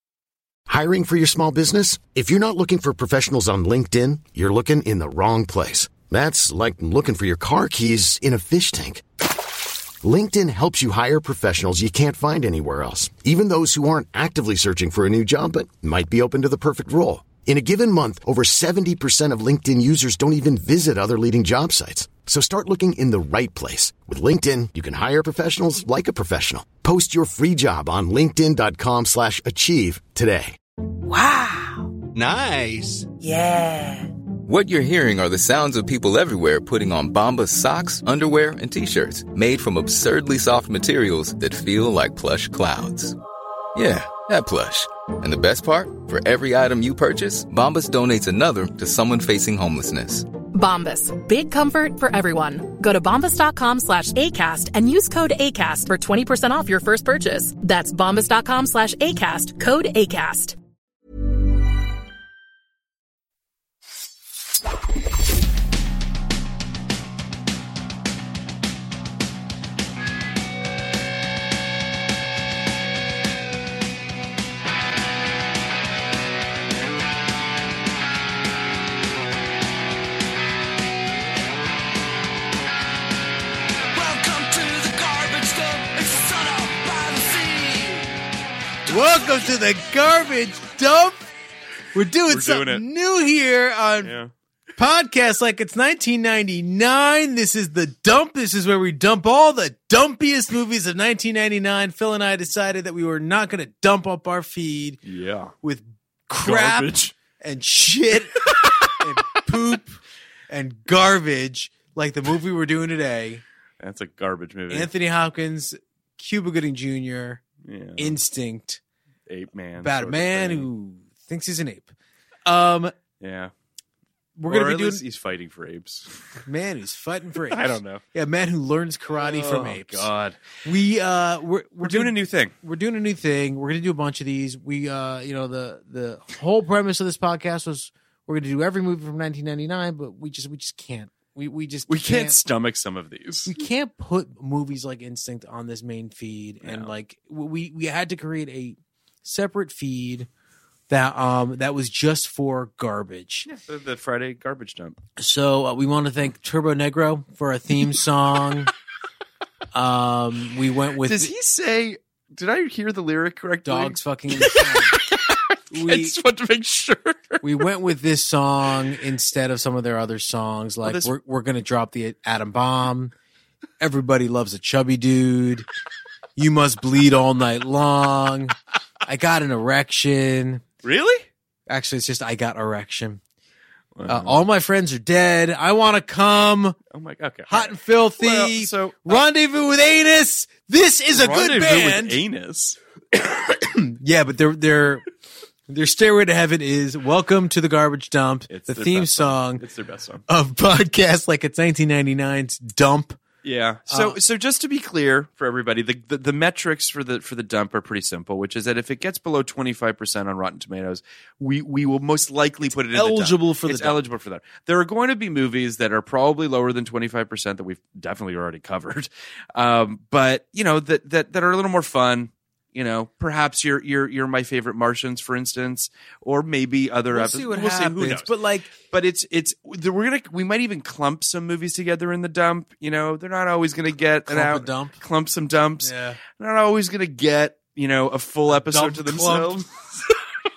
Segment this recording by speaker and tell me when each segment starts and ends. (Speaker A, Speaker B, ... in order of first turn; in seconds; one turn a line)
Speaker A: 0.7-9.0
Speaker A: 10.0-30.6
Speaker B: 31.1-31.9
Speaker B: 33.2-34.1
Speaker C: 34.5-43.1
Speaker C: 43.7-50.2
Speaker D: 50.5-60.5
Speaker B: 83.9-88.2
Speaker E: 88.9-91.2
Speaker E: 91.9-94.1
Speaker F: 92.3-92.8
Speaker F: 94.0-94.3
Speaker E: 94.8-105.0
Speaker F: 105.0-105.5
Speaker E: 105.6-113.4
Speaker F: 106.4-107.1
Speaker F: 108.5-109.4
Speaker F: 113.8-114.9
Speaker E: 114.7-117.4
Speaker F: 117.6-118.2
Speaker E: 118.0-118.8
Speaker F: 119.3-120.7
Speaker E: 119.8-121.9
Speaker E: 122.5-122.9
Speaker F: 123.2-123.5
Speaker E: 124.4-125.0
Speaker F: 124.5-126.4
Speaker E: 126.4-130.1
Speaker F: 127.4-128.0
Speaker F: 129.1-130.4
Speaker E: 130.6-142.4
Speaker F: 131.8-132.5
Speaker F: 141.9-143.6
Speaker E: 143.4-150.3
Speaker F: 146.6-146.9
Speaker E: 150.9-153.5
Speaker F: 153.5-155.0
Speaker E: 155.2-158.7
Speaker E: 159.7-161.3
Speaker F: 161.0-167.5
Speaker E: 163.6-165.0
Speaker E: 165.7-166.2
Speaker E: 167.4-173.1
Speaker F: 170.8-171.1
Speaker E: 173.8-175.7
Speaker E: 176.4-180.6
Speaker F: 180.8-181.3
Speaker E: 181.7-183.2
Speaker F: 183.9-184.4
Speaker E: 184.1-186.8
Speaker F: 186.9-189.2
Speaker E: 187.5-192.2
Speaker F: 191.1-192.8
Speaker E: 193.1-195.0
Speaker E: 195.7-199.6
Speaker F: 198.5-200.2
Speaker E: 200.3-203.2
Speaker F: 203.4-228.3
Speaker E: 203.9-204.2
Speaker E: 212.6-214.0
Speaker E: 227.1-228.7
Speaker F: 228.9-240.1
Speaker E: 234.3-235.0
Speaker E: 235.8-236.2
Speaker E: 238.5-239.6